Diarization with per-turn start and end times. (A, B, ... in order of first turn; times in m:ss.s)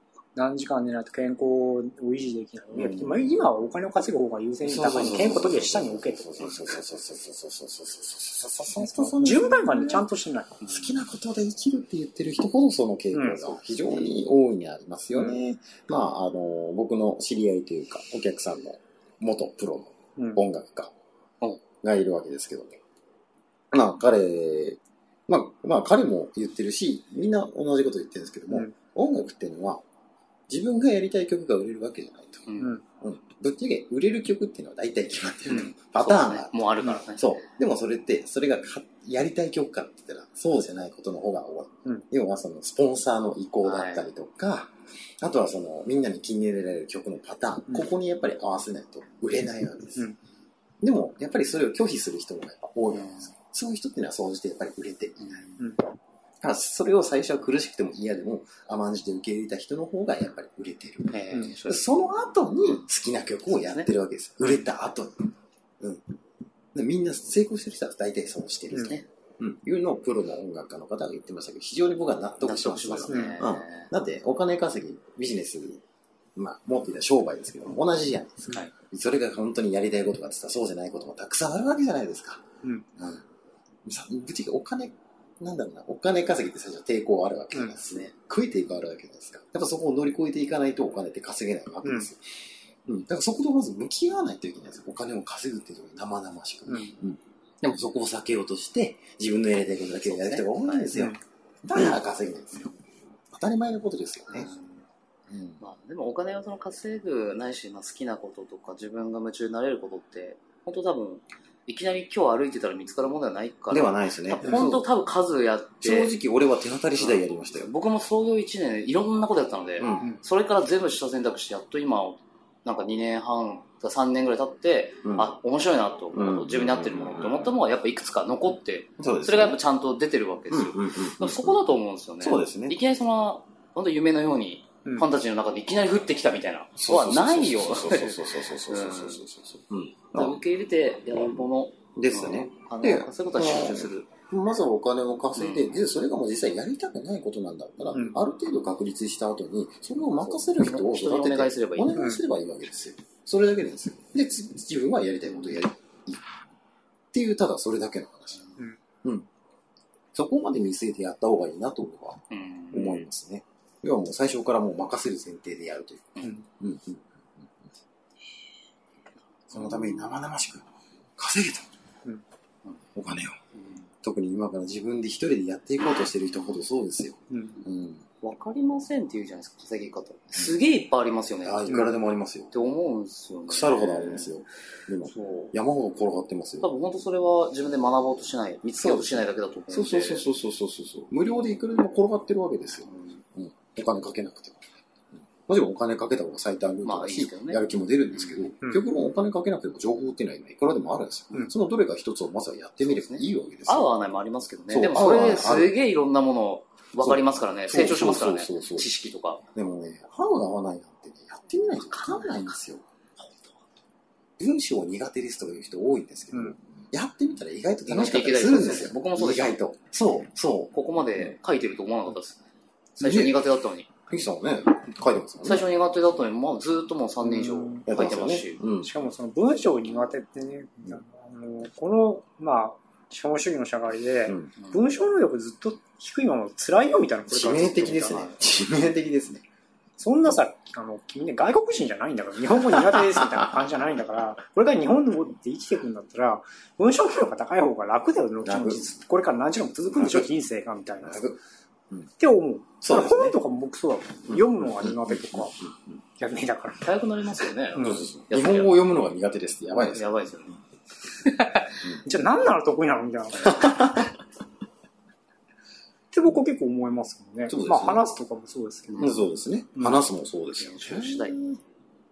0:00.3-0:06.6 A
0:02.7-0:03.5 B
0:04.6-0:10.1 B
0:08.8-0:10.6 A
0:10.6-0:20.9 B
0:10.6-0:10.9 C
0:13.1-0:13.4 A
0:13.5-0:14.1 C
0:20.2-0:20.4 A
0:21.8-0:22.8 B
0:23.7-0:29.8 B
0:30.5-0:32.5 B
0:32.5-0:32.8 C
0:33.0-0:50.1 B
0:35.5-0:37.4 C
0:43.6-0:44.1 C
0:50.8-0:55.4 B
0:52.9-0:53.3 C
0:55.2-0:55.7 C
0:56.4-1:06.0 B
1:01.1-1:01.9 C
1:03.5-1:03.9 C
1:06.7-1:15.8 B
1:08.7-1:09.0 A
1:08.7-1:09.0 C
1:12.4-1:13.9 C
1:13.1-1:13.4 A
1:16.4-1:22.4 B
1:23.0-1:23.2 B
1:23.9-1:32.2 B
1:31.8-1:32.1 A
1:32.9-1:42.8 B
1:36.7-1:36.9 A
1:40.0-1:40.9 C
1:40.9-1:41.2 A
1:43.3-1:44.5 B
1:44.3-1:44.8 C
1:45.3-1:45.6 B
1:45.6-1:56.1 C
1:53.7-1:54.9 B
1:55.8-1:57.7 B
1:57.0-2:19.2 C
1:59.8-2:00.2 B
2:05.0-2:05.4 B
2:06.1-2:07.5 B
2:09.0-2:09.6 B
2:10.5-2:12.8 B
2:16.8-2:20.4 B
2:20.1-2:24.1 C
2:21.1-2:36.3 B
2:25.4-2:25.8 C
2:30.2-2:32.1 C
2:32.0-2:32.2 A
2:35.2-2:35.6 C
2:37.1-2:38.4 B
2:40.1-2:47.5 B
2:42.3-2:43.1 C
2:49.5-2:50.2 C
2:49.5-2:51.7 B
2:53.0-2:53.4 B
2:53.6-2:53.8 C
2:54.0-2:58.0 B
2:57.3-2:57.6 A
2:58.2-3:01.9 C
3:01.4-3:02.6 B
3:02.5-3:04.4 C
3:03.5-3:06.7 B
3:05.0-3:05.5 C
3:06.6-3:10.2 C
3:08.8-3:14.7 B
3:12.9-3:13.2 C
3:15.5-3:23.9 B
3:16.8-3:17.6 C
3:22.8-3:29.4 C
3:24.7-3:25.8 B
3:27.0-3:28.9 B
3:29.5-3:32.8 B
3:31.8-3:32.6 C
3:33.2-3:33.5 C
3:34.4-3:41.4 B
3:36.3-3:36.6 A
3:37.8-3:39.6 C
3:40.7-3:42.4 C
3:43.0-3:43.9 C
3:43.0-3:43.4 B
3:44.1-3:45.7 B
3:45.4-3:48.6 C
3:47.2-3:47.9 A
3:47.8-3:48.9 B
3:48.8-3:58.2 A
3:54.6-3:54.9 C
3:57.3-3:59.4 B
3:58.0-3:58.4 C
4:00.0-4:11.2 A
4:02.9-4:03.6 B
4:08.4-4:08.9 B
4:09.9-4:10.2 B
4:11.0-4:11.4 B
4:12.2-4:15.6 A
4:12.8-4:13.4 B
4:14.3-4:15.7 B
4:16.2-4:16.9 A
4:16.8-4:18.9 C
4:17.8-4:20.0 B
4:17.8-4:18.0 A
4:19.8-4:20.6 C
4:21.2-4:21.8 C
4:22.0-4:23.9 A
4:23.4-4:24.1 B
4:26.1-4:29.2 A
4:27.5-4:28.1 B
4:28.9-4:29.2 C
4:29.0-4:31.6 B
4:29.8-4:30.1 A
4:30.6-4:31.6 C